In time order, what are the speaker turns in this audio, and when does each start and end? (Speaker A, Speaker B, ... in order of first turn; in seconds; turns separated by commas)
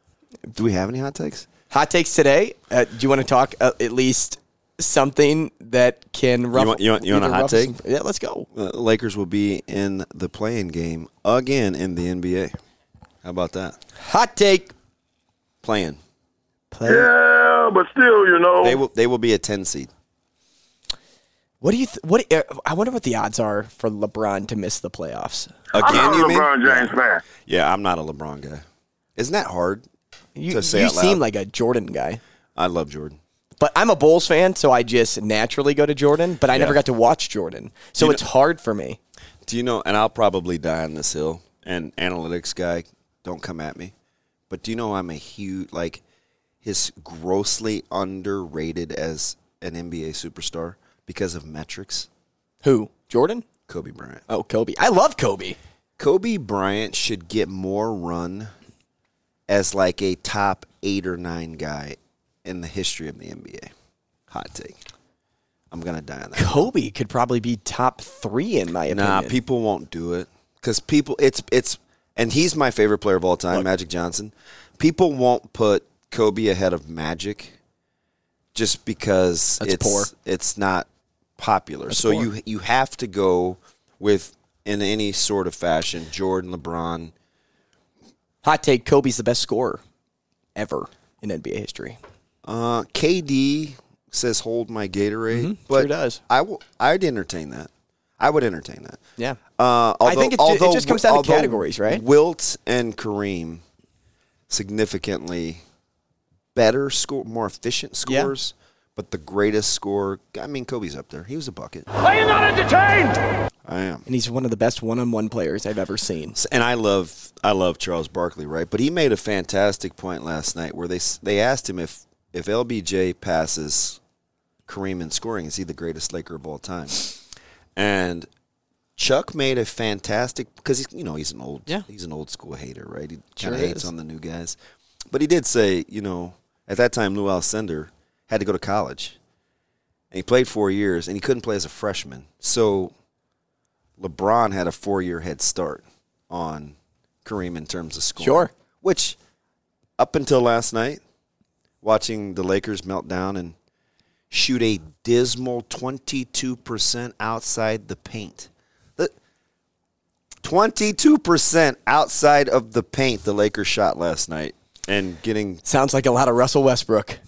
Speaker A: 0.5-1.5, Speaker B: 1.7-8.4, Speaker A: 6.5-7.8, Speaker A: 8.5-12.5, Speaker A: 13.2-13.8, Speaker B: 14.0-14.7, Speaker A: 15.6-16.0, Speaker B: 16.7-17.1, Speaker C: 16.9-18.8, Speaker A: 18.6-19.9, Speaker B: 21.6-25.5, Speaker A: 25.7-28.6, Speaker C: 25.7-27.2, Speaker A: 29.2-29.8, Speaker B: 30.4-32.2, Speaker A: 30.5-31.2, Speaker A: 32.5-33.2, Speaker B: 33.6-39.0, Speaker A: 36.5-36.8, Speaker A: 39.5-43.9, Speaker A: 44.5-46.0, Speaker A: 46.6-52.1, Speaker B: 52.6-53.4, Speaker A: 53.7-54.2, Speaker B: 54.3-55.6, Speaker A: 56.0-58.5, Speaker A: 59.5-63.7, Speaker A: 64.3-64.8, Speaker A: 65.7-66.7, Speaker B: 66.3-69.3, Speaker A: 68.9-77.6, Speaker A: 78.5-80.9, Speaker B: 79.6-80.1, Speaker A: 81.4-87.1, Speaker B: 81.9-82.3, Speaker B: 88.4-89.8, Speaker B: 90.5-92.0, Speaker A: 92.4-99.0, Speaker B: 95.3-96.2, Speaker A: 99.6-103.6, Speaker B: 100.0-102.0, Speaker A: 104.5-105.6, Speaker A: 106.5-111.9, Speaker B: 108.0-108.3, Speaker C: 112.0-113.2, Speaker A: 113.6-114.0, Speaker B: 114.0-116.3, Speaker A: 116.3-124.0, Speaker A: 124.7-127.0, Speaker A: 127.8-128.3, Speaker A: 129.0-134.6, Speaker B: 133.4-133.9, Speaker A: 135.1-139.2, Speaker A: 140.1-142.9, Speaker A: 144.0-149.2, Speaker B: 148.2-148.5, Speaker A: 150.0-151.0, Speaker A: 151.8-153.5, Speaker A: 154.3-159.1, Speaker A: 160.4-165.6, Speaker B: 165.7-167.2